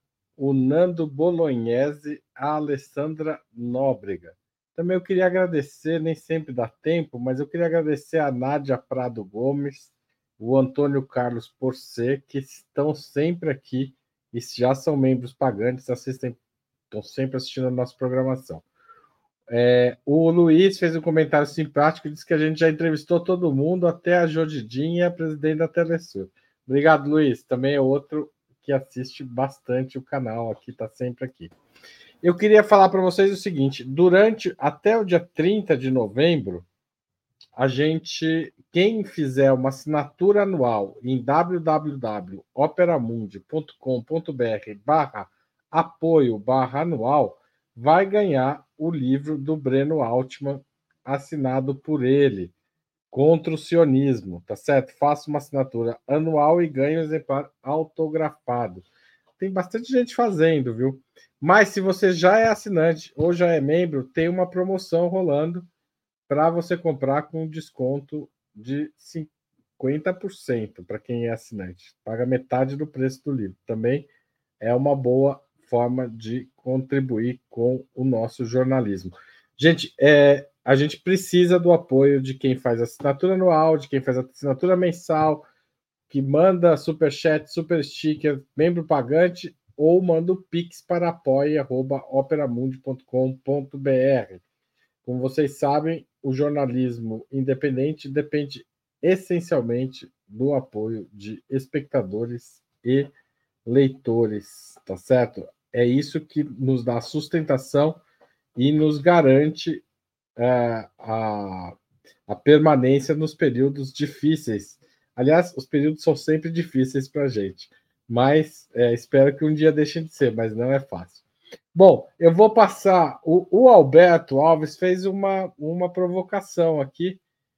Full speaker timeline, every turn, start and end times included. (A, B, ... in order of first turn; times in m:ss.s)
0:00.4-0:16.4 A
0:16.9-0:18.6 A
0:19.5-0:31.5 A
0:32.2-0:36.6 A
0:37.6-0:52.5 A
0:53.1-0:58.8 A
0:59.4-1:05.7 A
1:06.3-1:14.1 A
1:14.6-1:25.5 A
1:26.1-1:34.4 A
1:35.0-1:43.1 A
1:43.7-1:48.0 A
1:48.6-1:49.8 A
1:50.4-1:51.8 A
1:52.3-2:01.2 A
2:01.7-2:07.2 A